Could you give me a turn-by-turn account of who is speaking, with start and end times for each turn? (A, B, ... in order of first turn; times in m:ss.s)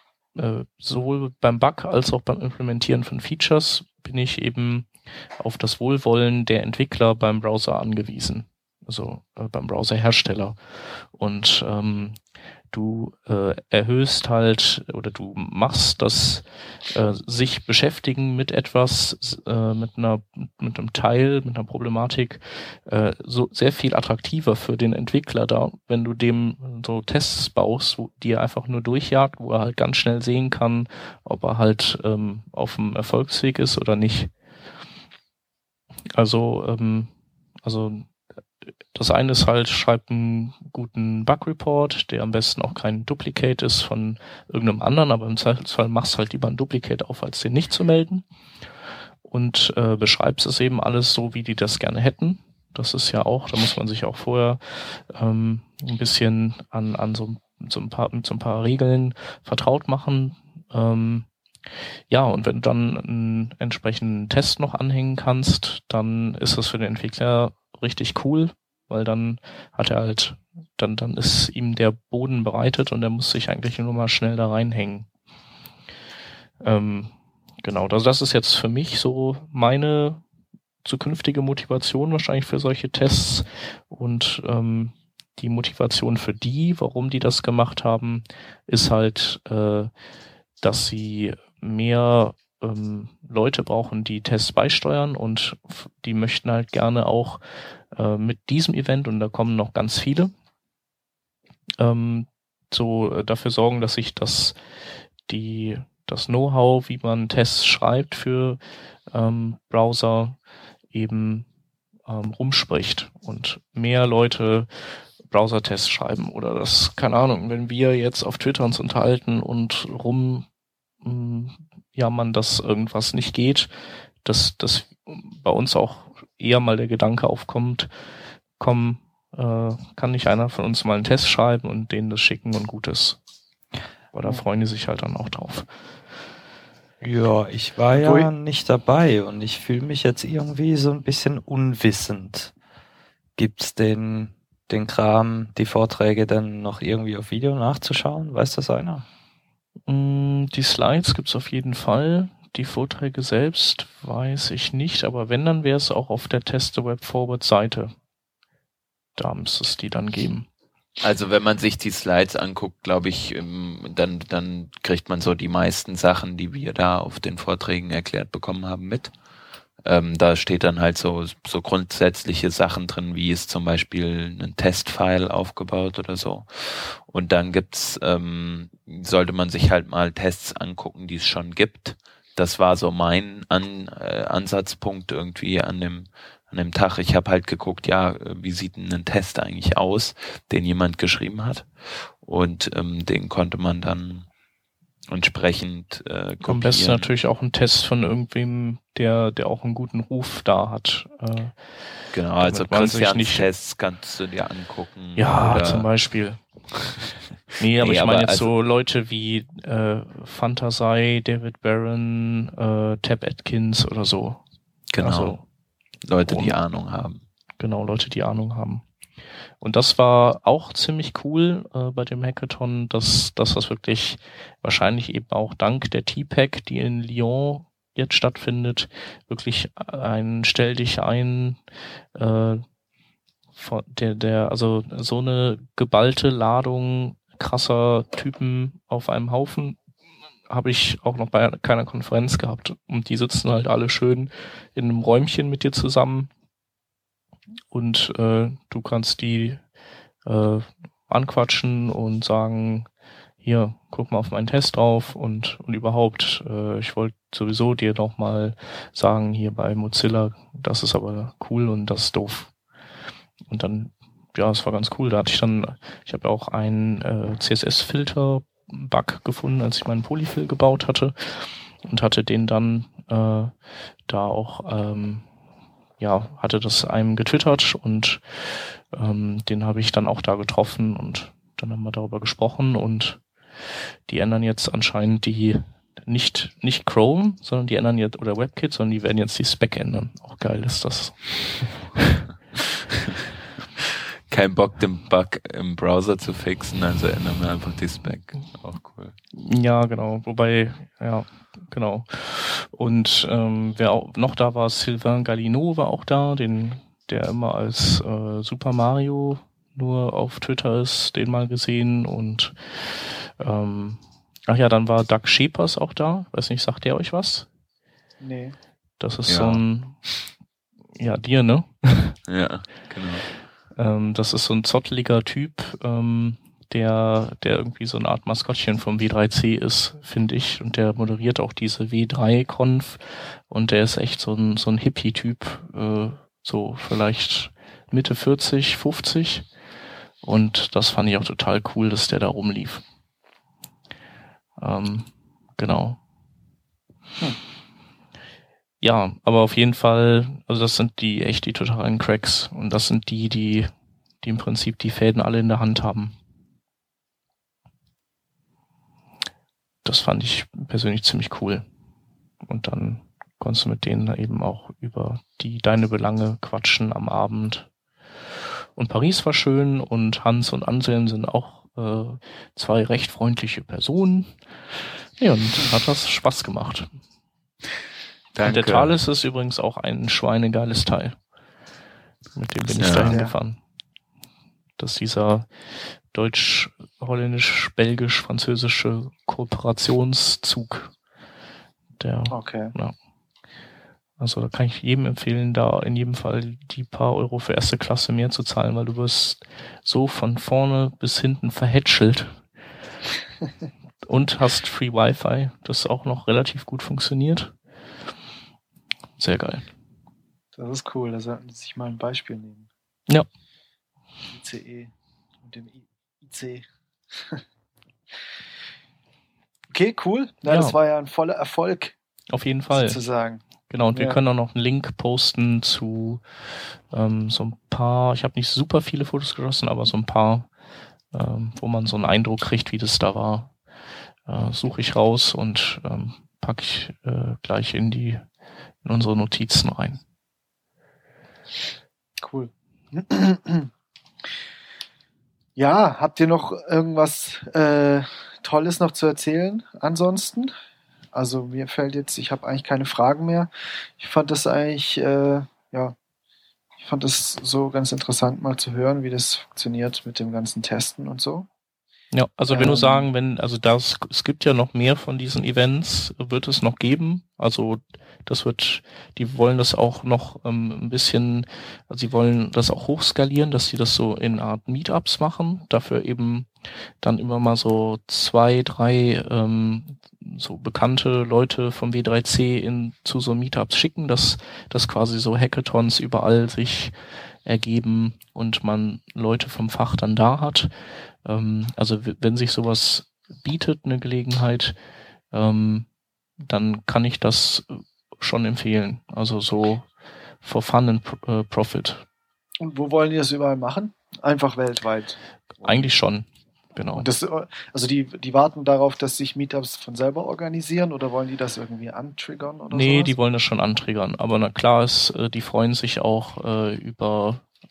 0:00.4-0:12.2 A
0:12.7-0:34.3 A
0:36.2-0:37.1 A
0:37.6-0:38.1 A
0:38.9-0:48.2 A
0:49.2-1:01.3 A
1:02.1-1:15.1 A
1:16.6-1:20.2 A
1:20.8-1:29.9 A
1:30.6-1:40.3 A
1:41.8-1:44.6 A
1:45.3-1:50.4 A
1:50.9-1:51.5 A
1:52.1-1:54.7 A
1:55.2-2:00.5 A
2:01.0-2:03.7 A
2:04.2-2:07.9 A
2:08.6-2:13.2 A
2:14.1-2:15.7 A
2:17.0-2:22.5 B
2:18.0-2:18.3 C
2:23.4-2:29.0 B
2:29.9-2:37.9 A
2:39.2-2:40.5 A
2:41.0-2:49.1 D
2:49.8-3:14.3 D
3:15.1-3:17.1 D
3:16.4-3:21.6 A
3:22.1-3:25.9 D
3:22.4-3:23.5 A
3:25.2-3:26.4 A
3:27.6-3:34.4 A
3:27.8-3:28.5 D
3:34.9-3:35.4 D
3:35.0-3:35.4 A
3:36.0-3:37.2 D
3:36.3-3:36.6 A
3:37.6-3:38.8 A
3:39.6-3:51.6 A
3:52.2-3:52.6 A
3:53.6-3:59.8 A
4:00.5-4:06.3 A
4:07.7-4:09.6 A
4:10.2-4:12.9 A
4:13.4-4:22.5 A
4:23.5-4:33.5 A
4:34.1-4:35.2 A
4:36.0-4:43.2 A
4:44.1-4:52.2 A
4:54.3-4:59.2 D
4:59.4-5:17.5 A
5:18.2-5:18.6 C
5:19.0-5:20.0 A
5:19.3-5:19.6 D
5:21.0-5:22.2 A
5:22.3-5:23.3 D
5:23.8-5:39.5 A
5:40.2-5:42.8 A
5:44.6-5:46.0 A
5:48.8-5:53.7 A
5:54.2-5:56.1 A
5:59.8-6:01.6 A
6:02.5-6:07.7 A
6:08.8-6:14.4 A
6:15.2-6:16.9 A
6:18.3-6:19.0 D
6:18.4-6:21.2 A
6:22.4-6:23.6 A
6:22.7-6:23.2 D
6:23.0-6:23.3 C
6:24.8-6:25.5 A
6:26.1-6:30.9 A
6:32.0-6:32.9 A
6:32.3-6:32.7 C
6:34.2-6:42.4 A
6:44.0-6:47.6 A
6:49.2-6:49.7 A
6:50.6-6:52.7 C
6:54.3-6:54.9 C
6:55.4-6:57.4 C
6:59.7-7:02.0 C
7:00.5-7:00.8 A
7:02.3-7:03.0 A
7:02.7-7:04.2 C
7:03.7-7:06.3 A
7:06.9-7:10.5 A
7:11.1-7:13.5 A
7:14.3-7:18.2 A
7:18.8-7:20.0 A
7:22.2-7:23.7 C
7:25.6-7:30.5 C
7:31.1-7:36.0 C
7:36.8-7:41.5 C
7:42.1-7:56.5 A
7:42.5-7:43.1 C
7:57.0-8:14.8 A
8:15.3-8:15.9 A
8:16.4-8:19.9 A
8:20.4-8:22.0 A
8:22.6-8:25.9 C
8:25.6-8:27.1 A
8:27.0-8:33.2 C
8:32.7-8:37.4 A